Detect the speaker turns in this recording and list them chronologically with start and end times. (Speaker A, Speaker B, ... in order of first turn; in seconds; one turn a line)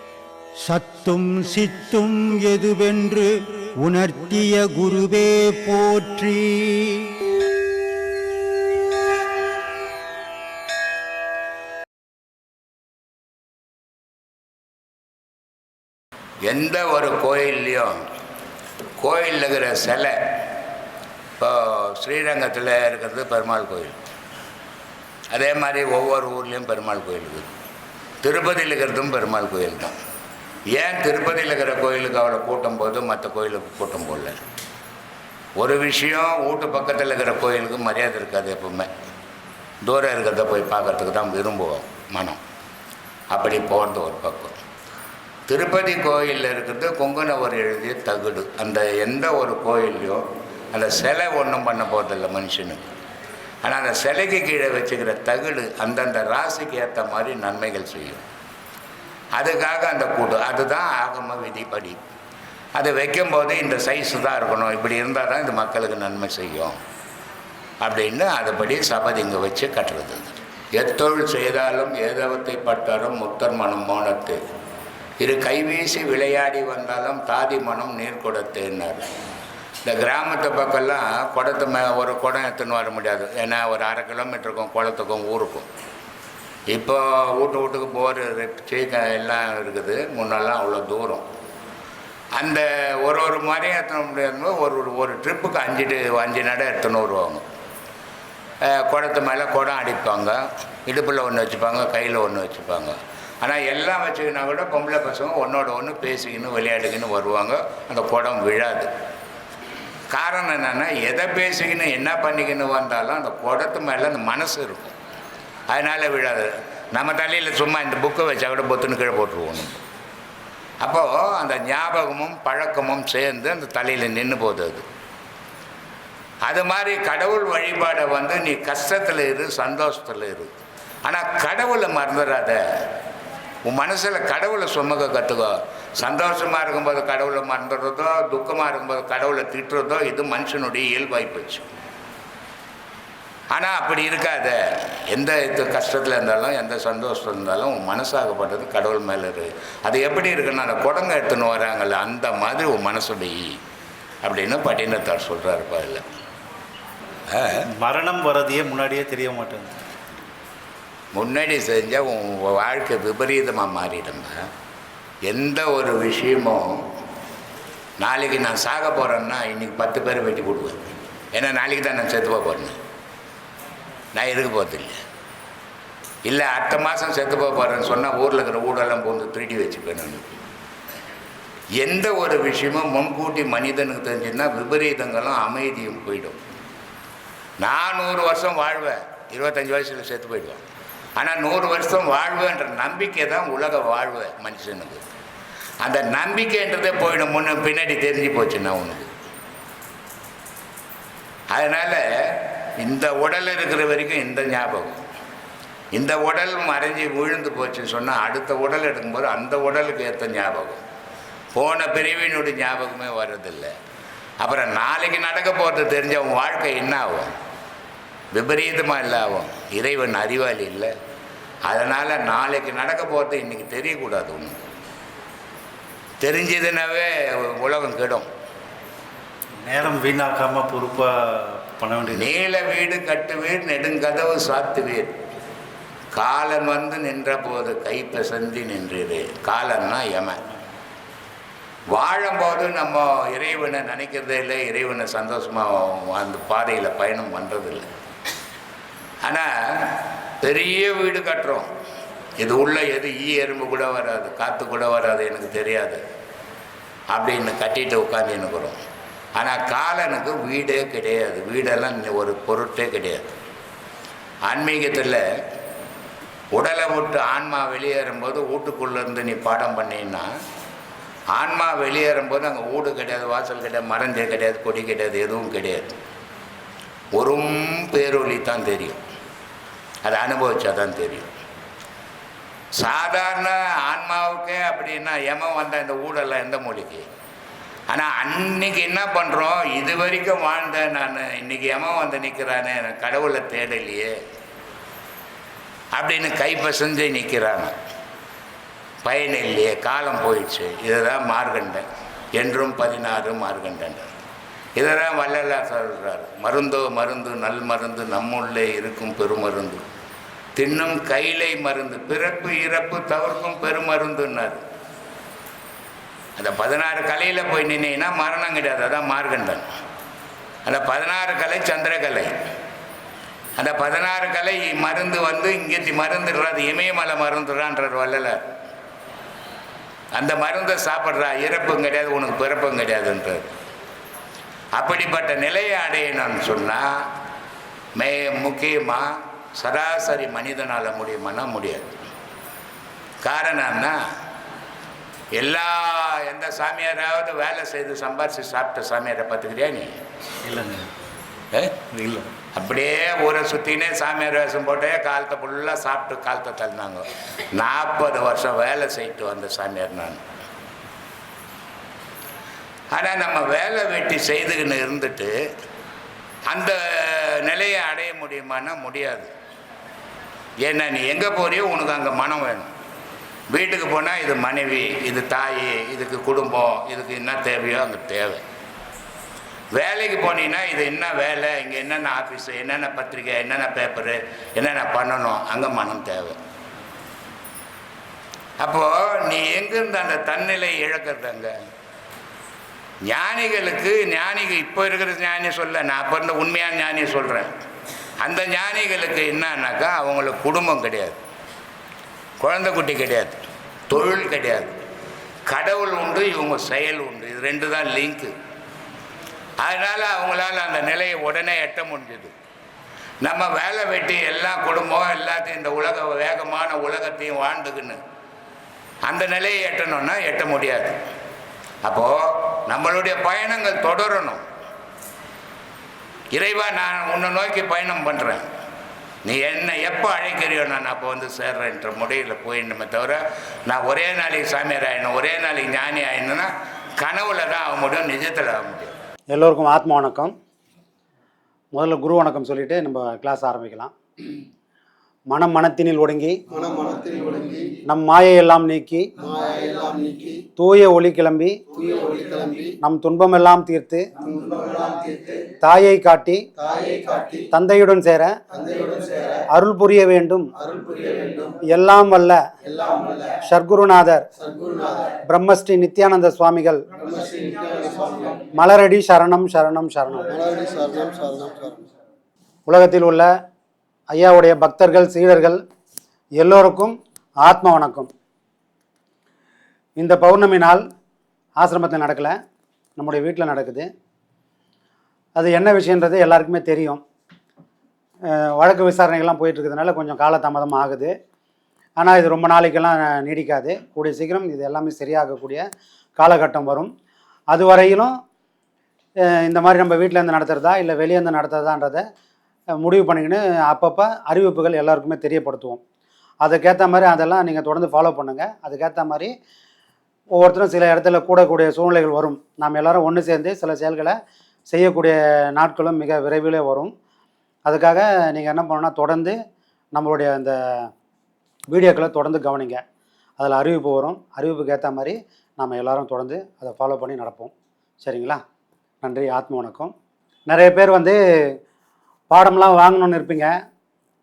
Speaker A: 0.6-7.1
Speaker B: 16.4-18.0
Speaker B: 19.0-20.4
Speaker B: 21.4-24.0
Speaker B: 25.3-27.5
Speaker B: 28.2-29.9
Speaker B: 30.8-34.4
Speaker B: 35.6-38.9
Speaker B: 39.8-42.4
Speaker B: 43.3-44.5
Speaker B: 45.5-52.9
Speaker B: 53.6-58.2
Speaker B: 59.4-62.0
Speaker B: 62.8-66.8
Speaker B: 67.8-74.4
Speaker B: 75.2-79.1
Speaker B: 79.8-85.7
Speaker B: 86.7-91.2
Speaker B: 92.3-97.4
Speaker B: 98.7-108.9
Speaker B: 110.1-114.9
Speaker B: 115.7-119.8
Speaker B: 120.8-124.9
Speaker B: 126.4-130.5
Speaker B: 131.1-132.6
Speaker B: 133.7-141.7
Speaker B: 143.5-153.6
Speaker B: 154.2-156.1
Speaker B: 157.3-157.6
Speaker C: 157.7-159.7
Speaker B: 161.1-164.4
Speaker B: 165.3-166.8
Speaker B: 168.0-172.8
Speaker B: 174.1-175.0
Speaker B: 176.3-180.3
Speaker B: 181.8-186.4
Speaker B: 187.6-190.6
Speaker B: 191.2-195.0
Speaker B: 195.8-199.1
Speaker B: 201.5-205.0
Speaker B: 205.9-210.8
Speaker B: 211.5-213.7
Speaker B: 214.4-217.4
Speaker B: 218.3-220.9
Speaker B: 221.7-224.6
Speaker B: 226.2-228.3
Speaker C: 229.6-232.3
Speaker B: 232.1-235.2
Speaker B: 236.1-240.4
Speaker B: 241.9-247.9
Speaker B: 249.2-251.7
Speaker B: 252.4-256.0
Speaker B: 257.1-258.8
Speaker B: 259.4-263.4
Speaker B: 264.5-265.2
Speaker B: 266.5-270.3
Speaker B: 271.4-275.9
Speaker B: 277.2-279.0
Speaker B: 280.0-281.3
Speaker B: 282.8-287.1
Speaker B: 287.9-294.2
Speaker B: 295.9-297.7
Speaker B: 299.0-304.1
Speaker B: 304.8-309.8
Speaker B: 310.6-314.6
Speaker B: 316.4-319.7
Speaker B: 320.7-322.3
Speaker B: 323.6-328.4
Speaker B: 330.1-333.5
Speaker B: 334.8-336.9
Speaker B: 337.9-342.0
Speaker B: 343.2-344.0
Speaker B: 345.4-350.0
Speaker C: 350.5-350.9
Speaker B: 351.5-351.8
Speaker C: 351.9-352.3
Speaker B: 352.5-360.2
Speaker B: 362.9-365.3
Speaker B: 366.5-369.3
Speaker B: 370.6-372.7
Speaker B: 373.5-378.4
Speaker B: 379.7-386.4
Speaker B: 388.6-391.5
Speaker B: 393.1-397.5
Speaker B: 398.2-401.2
Speaker B: 402.4-404.8
Speaker B: 405.5-408.3
Speaker B: 409.6-412.3
Speaker B: 413.2-418.0
Speaker B: 419.1-421.0
Speaker B: 421.8-424.4
Speaker B: 426.3-428.4
Speaker B: 429.2-438.9
Speaker D: 439.3-440.3
Speaker D: 441.7-443.9
Speaker D: 445.3-446.4
Speaker E: 446.5-447.8
Speaker D: 447.9-449.1
Speaker E: 449.2-450.4
Speaker D: 450.5-451.6
Speaker E: 451.9-452.7
Speaker D: 452.8-454.1
Speaker E: 454.4-455.4
Speaker D: 455.5-456.4
Speaker E: 456.7-457.4
Speaker D: 457.5-458.4
Speaker E: 458.7-459.2
Speaker D: 459.5-460.5
Speaker E: 460.8-461.5
Speaker D: 461.6-462.4
Speaker E: 462.8-463.2
Speaker D: 463.4-464.2
Speaker E: 464.6-464.9
Speaker D: 465.2-466.8
Speaker E: 467.1-468.4
Speaker D: 468.5-470.4
Speaker E: 470.4-471.8
Speaker D: 472.7-473.3
Speaker D: 474.1-475.6
Speaker D: 476.4-478.1
Speaker D: 480.0-480.8
Speaker D: 481.6-482.4
Speaker D: 483.0-483.9
Speaker D: 485.4-487.0
Speaker D: 488.4-491.1
Speaker D: 492.0-495.6
Speaker D: 496.2-496.9
Speaker D: 497.5-498.1
Speaker D: 499.4-502.0
Speaker D: 502.8-505.8
Speaker D: 506.4-509.3
Speaker D: 510.4-514.1
Speaker D: 514.7-516.9
Speaker D: 517.7-519.4
Speaker D: 519.9-520.6
Speaker D: 521.7-522.8
Speaker D: 523.4-528.4
Speaker D: 529.0-529.9
Speaker D: 530.5-531.2
Speaker D: 532.3-533.5